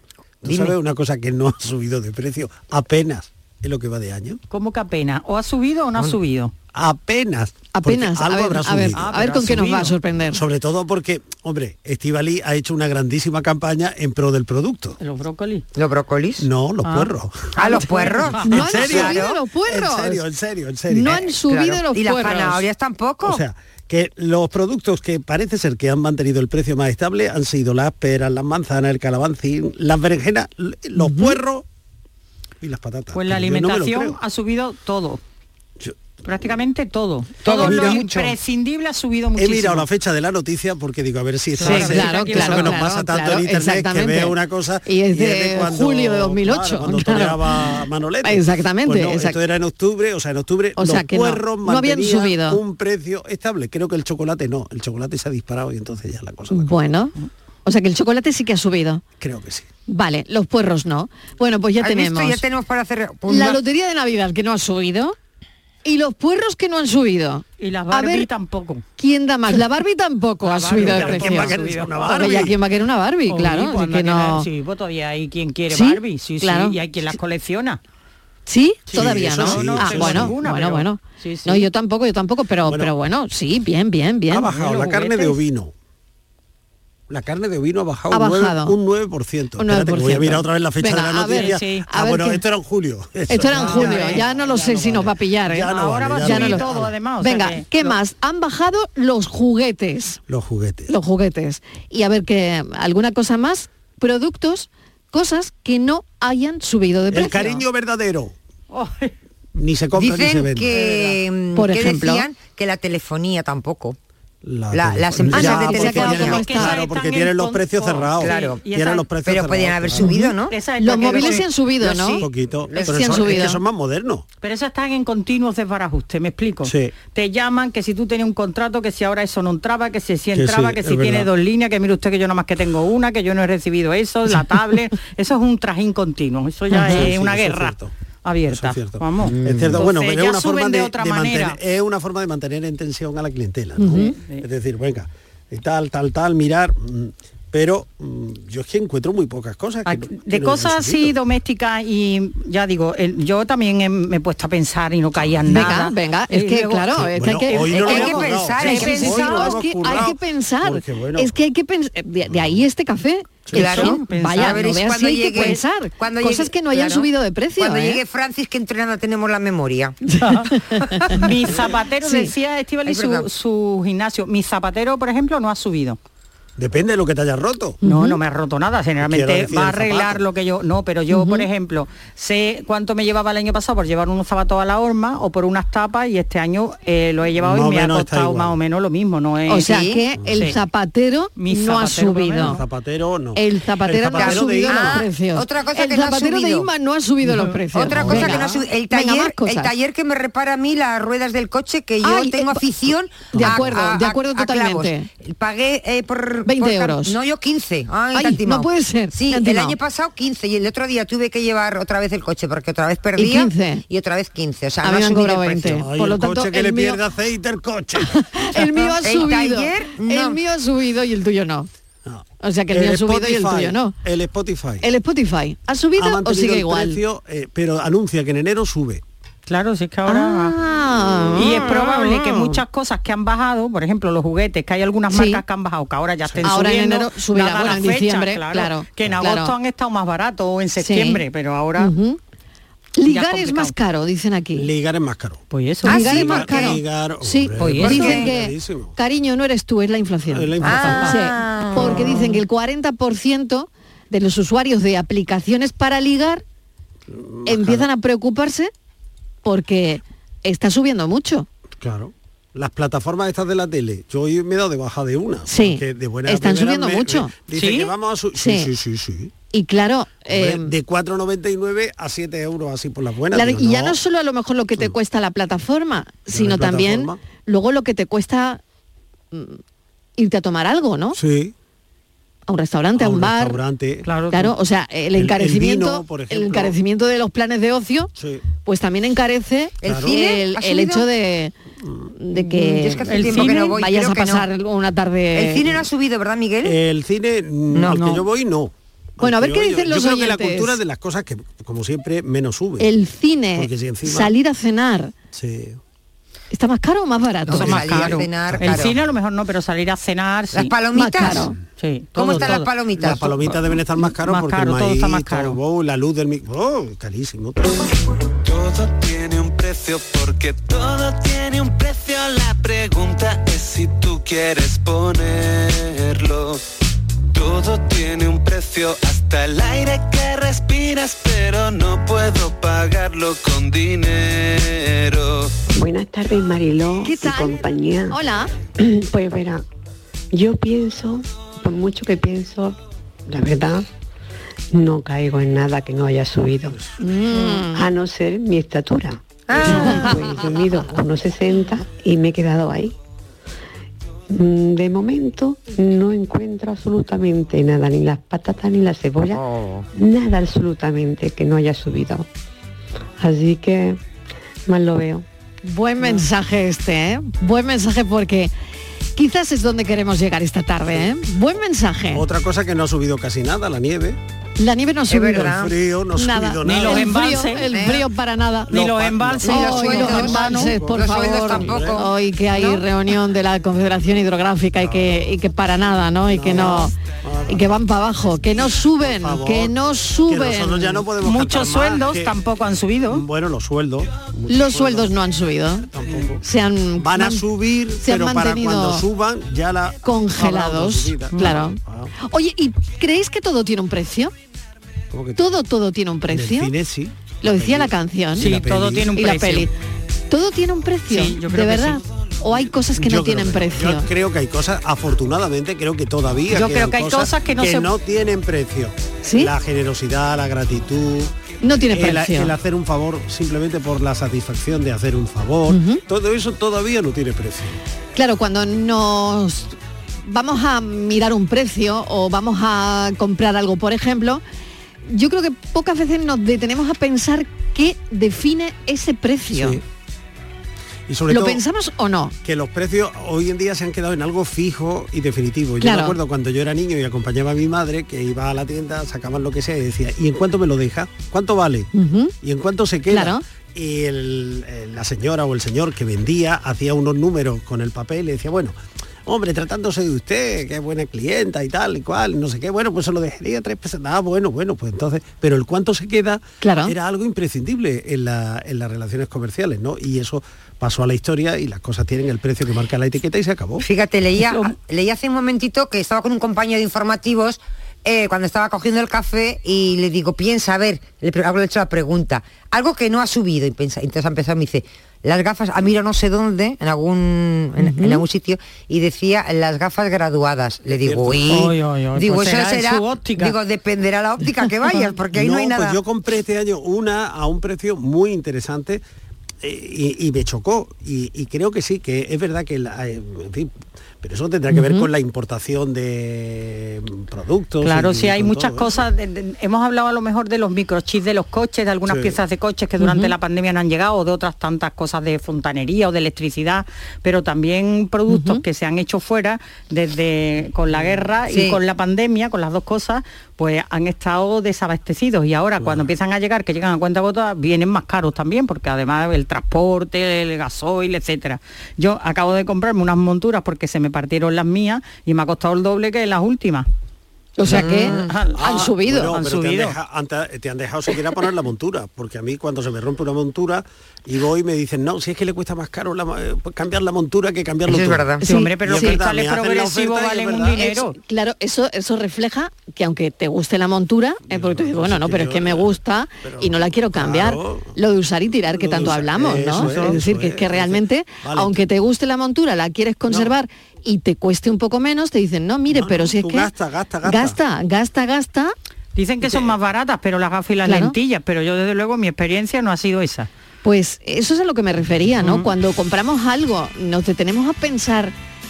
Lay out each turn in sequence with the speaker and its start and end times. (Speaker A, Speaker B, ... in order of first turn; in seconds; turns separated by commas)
Speaker A: 0.4-4.4, Speaker B: 0.5-0.8, Speaker C: 4.5-6.5, Speaker A: 6.7-9.1, Speaker D: 7.7-10.4, Speaker C: 8.9-10.0, Speaker A: 10.3-15.0, Speaker C: 15.0-15.7, Speaker B: 15.8-16.5, Speaker A: 16.4-17.9, Speaker B: 17.6-19.4, Speaker C: 17.6-18.6, Speaker A: 18.4-21.2, Speaker D: 18.4-20.2, Speaker D: 20.9-22.6, Speaker B: 21.1-23.4, Speaker A: 23.2-31.6, Speaker D: 31.0-31.4, Speaker A: 32.6-34.2, Speaker C: 33.1-35.2, Speaker C: 36.2-39.9, Speaker B: 37.4-38.3, Speaker A: 37.5-38.2, Speaker A: 39.4-56.7, Speaker C: 41.6-42.8, Speaker D: 41.6-47.7, Speaker D: 48.2-49.4, Speaker D: 50.8-52.6, Speaker D: 56.5-57.1, Speaker D: 57.6-59.0, Speaker A: 59.2-59.7, Speaker D: 59.9-62.4, Speaker B: 61.8-63.6, Speaker D: 63.3-65.2, Speaker D: 65.8-68.3, Speaker C: 67.6-68.8, Speaker D: 69.0-74.5, Speaker C: 70.5-72.2, Speaker A: 70.7-72.6, Speaker C: 73.3-77.8, Speaker D: 75.7-76.8, Speaker D: 78.5-84.5, Speaker C: 78.9-81.7, Speaker A: 78.9-80.4, Speaker A: 82.7-82.9, Speaker A: 84.3-85.7, Speaker C: 84.5-85.3, Speaker A: 87.1-96.9, Speaker D: 88.1-88.8, Speaker D: 89.6-92.4, Speaker C: 91.3-91.8, Speaker D: 93.3-95.7, Speaker C: 93.5-94.2, Speaker C: 95.7-98.0, Speaker D: 96.2-96.7, Speaker D: 97.2-100.2, Speaker A: 100.3-100.9, Speaker D: 100.9-107.6, Speaker A: 107.1-108.3, Speaker C: 108.7-109.1, Speaker A: 109.6-110.8, Speaker B: 110.0-114.0, Speaker C: 110.7-111.2, Speaker D: 111.5-112.2, Speaker A: 114.4-120.1, Speaker B: 114.7-116.4, Speaker D: 115.2-116.8, Speaker C: 116.0-119.1, Speaker B: 118.2-118.6, Speaker B: 119.2-120.6, Speaker D: 120.0-122.2, Speaker C: 120.5-122.2, Speaker B: 121.8-122.1, Speaker A: 122.2-124.2, Speaker B: 122.7-123.4, Speaker D: 122.9-123.6, Speaker C: 124.4-141.6, Speaker A: 126.6-126.9, Speaker A: 130.3-131.3, Speaker D: 136.7-137.1, Speaker A: 136.9-137.9, Speaker A: 138.5-151.2, Speaker B: 139.4-139.7, Speaker D: 143.8-144.1, Speaker C: 144.0-144.4, Speaker C: 149.9-158.0, Speaker A: 155.2-155.7, Speaker D: 155.5-168.0, Speaker A: 157.0-161.3, Speaker B: 157.7-159.6, Speaker A: 162.3-162.6, Speaker A: 163.5-163.8, Speaker C: 163.5-164.8, Speaker B: 163.5-170.0, Speaker C: 165.3-165.6, Speaker D: 170.1-171.1, Speaker C: 170.2-170.5, Speaker C: 171.2-176.0, Speaker D: 172.0-172.3, Speaker B: 172.9-173.3, Speaker A: 176.6-177.8, Speaker D: 177.8-178.2, Speaker C: 177.8-189.8, Speaker A: 179.0-180.2, Speaker D: 181.1-181.5, Speaker A: 187.4-188.6, Speaker D: 189.5-192.6, Speaker B: 189.6-190.0, Speaker A: 190.2-190.4, Speaker C: 191.4-192.6, Speaker A: 192.4-195.1, Speaker D: 193.3-199.7, Speaker B: 194.2-196.7, Speaker B: 197.7-215.8, Speaker A: 197.9-198.4, Speaker D: 202.0-202.7, Speaker D: 203.3-205.1, Speaker A: 203.3-203.8, Speaker D: 206.5-207.2, Speaker D: 208.1-209.8, Speaker D: 213.2-213.8, Speaker D: 214.8-217.0, Speaker A: 215.7-218.9, Speaker D: 218.0-221.7, Speaker B: 218.9-220.4, Speaker A: 222.1-224.9, Speaker D: 222.4-223.9, Speaker D: 224.8-227.0, Speaker A: 226.0-229.0, Speaker C: 229.5-230.5, Speaker D: 230.1-231.9, Speaker C: 231.4-241.9, Speaker D: 235.1-235.4, Speaker A: 236.2-236.6, Speaker D: 236.4-239.5, Speaker D: 240.8-241.2, Speaker D: 241.8-242.2, Speaker D: 243.0-244.7, Speaker C: 243.1-243.7, Speaker A: 244.6-249.0, Speaker C: 245.5-246.0, Speaker B: 245.8-246.8, Speaker D: 245.9-256.4, Speaker C: 247.6-248.2, Speaker B: 247.6-248.3, Speaker A: 250.3-251.2, Speaker B: 250.6-252.4, Speaker A: 257.1-257.9, Speaker D: 257.5-258.7, Speaker D: 259.4-261.5, Speaker A: 261.8-269.3, Speaker D: 265.5-267.3, Speaker C: 267.5-267.9, Speaker D: 268.4-268.7, Speaker D: 269.5-270.7, Speaker A: 270.3-274.0, Speaker D: 273.3-278.6, Speaker A: 276.3-277.2, Speaker D: 279.3-279.6, Speaker D: 280.2-281.2, Speaker A: 281.1-281.5, Speaker D: 282.5-283.6, Speaker A: 283.0-284.1, Speaker C: 284.1-284.5, Speaker D: 284.3-288.1, Speaker A: 285.2-286.8, Speaker A: 288.2-288.4, Speaker D: 288.6-291.5, Speaker B: 289.8-291.1, Speaker A: 289.8-290.2, Speaker A: 291.8-292.1, Speaker D: 292.2-295.7, Speaker B: 292.3-294.5, Speaker C: 293.1-293.8, Speaker B: 295.3-296.8, Speaker A: 296.6-302.9, Speaker B: 297.7-298.2, Speaker D: 299.2-300.8, Speaker D: 302.8-305.1, Speaker A: 303.6-304.3, Speaker A: 305.3-305.8, Speaker D: 306.5-308.1, Speaker B: 307.5-308.9, Speaker C: 307.5-310.7, Speaker A: 308.1-309.0, Speaker B: 310.5-311.5, Speaker D: 310.9-311.6, Speaker C: 311.8-312.7, Speaker B: 312.2-313.4, Speaker A: 312.4-317.9, Speaker C: 314.0-315.6, Speaker E: 318.4-326.6, Speaker E: 327.3-335.6, Speaker F: 335.7-338.2, Speaker D: 337.0-338.5, Speaker F: 338.8-339.6, Speaker F: 340.3-343.9, Speaker F: 344.7-346.8, Speaker D: 347.0-347.9, Speaker F: 347.7-352.9, Speaker B: 349.5-350.2, Speaker D: 349.6-350.1, Speaker F: 354.3-359.4, Speaker B: 359.4-359.9, Speaker F: 359.9-362.3, Speaker F: 363.2-364.0, Speaker F: 364.7-365.2, Speaker D: 365.6-368.5, Speaker D: 369.2-372.2, Speaker A: 372.1-374.2, Speaker D: 374.6-375.6, Speaker B: 375.1-375.7, Speaker A: 375.4-377.2, Speaker D: 376.2-378.8, Speaker C: 376.6-377.7, Speaker B: 377.7-378.1, Speaker A: 378.7-382.0, Speaker C: 378.7-380.8, Speaker B: 379.4-382.8, Speaker D: 379.4-386.9, Speaker A: 384.8-385.2, Speaker A: 386.3-387.8, Speaker D: 387.5-391.1, Speaker A: 388.5-389.8, Speaker A: 390.3-392.3, Speaker C: 391.2-393.2, Speaker A: 393.1-395.1, Speaker D: 394.5-395.9, Speaker A: 395.9-396.4, Speaker D: 396.4-397.4, Speaker A: 397.0-402.1, Speaker D: 398.0-399.1, Speaker D: 400.0-404.3, Speaker C: 401.3-401.6, Speaker A: 405.1-405.6, Speaker D: 405.4-406.7, Speaker A: 406.3-409.1, Speaker D: 407.4-408.5, Speaker C: 408.4-409.7, Speaker D: 409.2-409.7, Speaker D: 410.3-414.1, Speaker C: 411.1-412.0, Speaker A: 412.7-421.3, Speaker C: 416.5-417.9, Speaker D: 419.2-419.5, Speaker D: 421.6-422.5, Speaker A: 421.9-427.8, Speaker D: 425.7-426.0, Speaker D: 428.2-434.4, Speaker D: 435.1-439.8, Speaker A: 439.5-439.8, Speaker A: 441.1-441.6, Speaker D: 441.3-442.4, Speaker A: 442.4-451.9, Speaker D: 445.8-446.2, Speaker D: 451.9-452.3, Speaker A: 452.4-473.9, Speaker D: 453.1-453.4, Speaker D: 466.6-466.9, Speaker B: 473.8-496.0, Speaker D: 487.8-488.2, Speaker A: 490.9-491.6, Speaker C: 491.5-493.6, Speaker A: 495.3-499.0, Speaker A: 499.6-509.0, Speaker D: 504.7-505.1, Speaker C: 507.8-536.9, Speaker A: 512.1-512.4, Speaker D: 513.0-513.3, Speaker D: 518.3-518.6, Speaker A: 520.9-521.2, Speaker B: 521.5-521.8, Speaker A: 525.8-526.1, Speaker D: 537.6-539.4, Speaker A: 537.7-550.8, Speaker B: 537.7-538.3, Speaker C: 538.0-540.0, Speaker B: 547.9-548.4, Speaker D: 548.4-549.2, Speaker C: 548.4-551.1, Speaker D: 550.8-566.7, Speaker A: 554.5-557.9, Speaker A: 558.7-561.8, Speaker A: 563.3-563.5, Speaker A: 565.9-567.6, Speaker D: 567.2-568.7, Speaker C: 569.2-573.5, Speaker A: 569.5-569.7, Speaker D: 570.9-571.1, Speaker D: 573.8-578.3, Speaker C: 575.4-575.7